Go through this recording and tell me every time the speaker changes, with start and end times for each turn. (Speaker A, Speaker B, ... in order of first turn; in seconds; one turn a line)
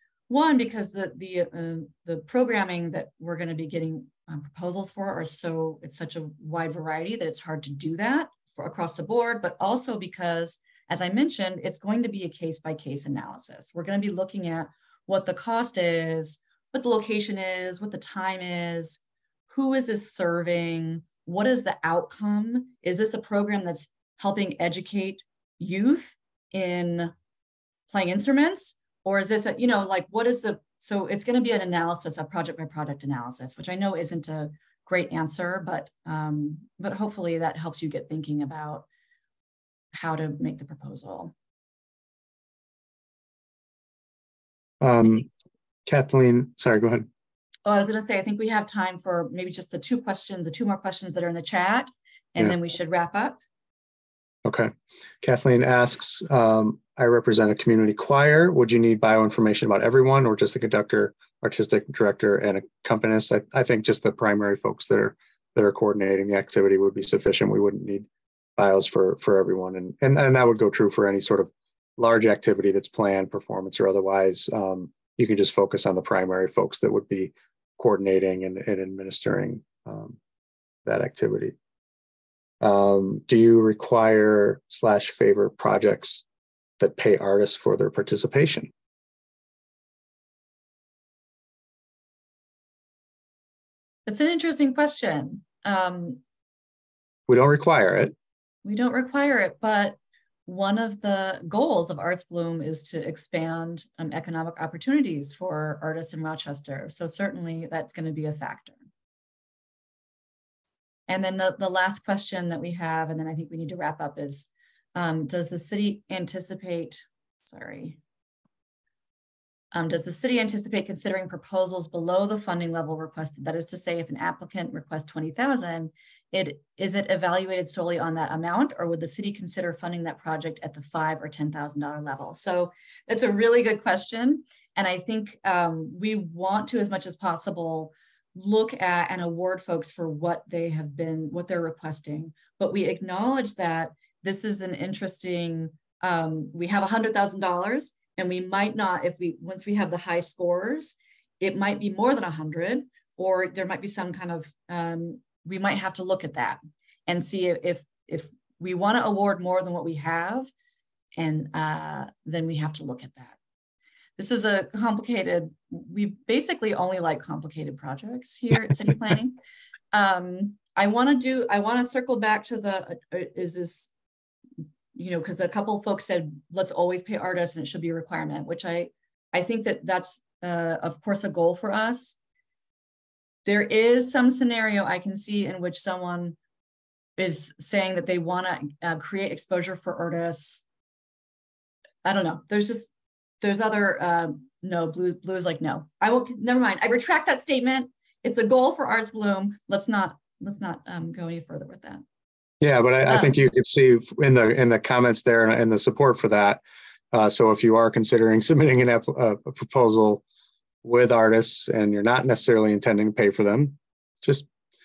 Speaker A: 0.3-27.1
Speaker A: 27.9-38.9
Speaker A: 39.9-41.3
Speaker B: 44.8-45.3
Speaker B: 45.9-47.1
Speaker A: 47.6-53.4
Speaker B: 54.4-80.2
Speaker B: 80.8-81.5
Speaker B: 82.6-86.2
Speaker B: 86.8-88.7
Speaker A: 94.0-96.2
Speaker B: 97.3-98.1
Speaker A: 98.6-108.8
Speaker A: 111.1-118.0
Speaker A: 119.7-160.5
Speaker A: 161.2-163.4
Speaker A: 164.2-169.4
Speaker A: 169.9-173.9
Speaker A: 174.9-182.2
Speaker A: 183.4-186.4
Speaker A: 187.2-190.6
Speaker A: 192.0-192.9
Speaker A: 193.4-202.0
Speaker B: 202.6-206.6
Speaker A: 203.1-203.4
Speaker B: 207.1-210.2
Speaker B: 210.8-214.5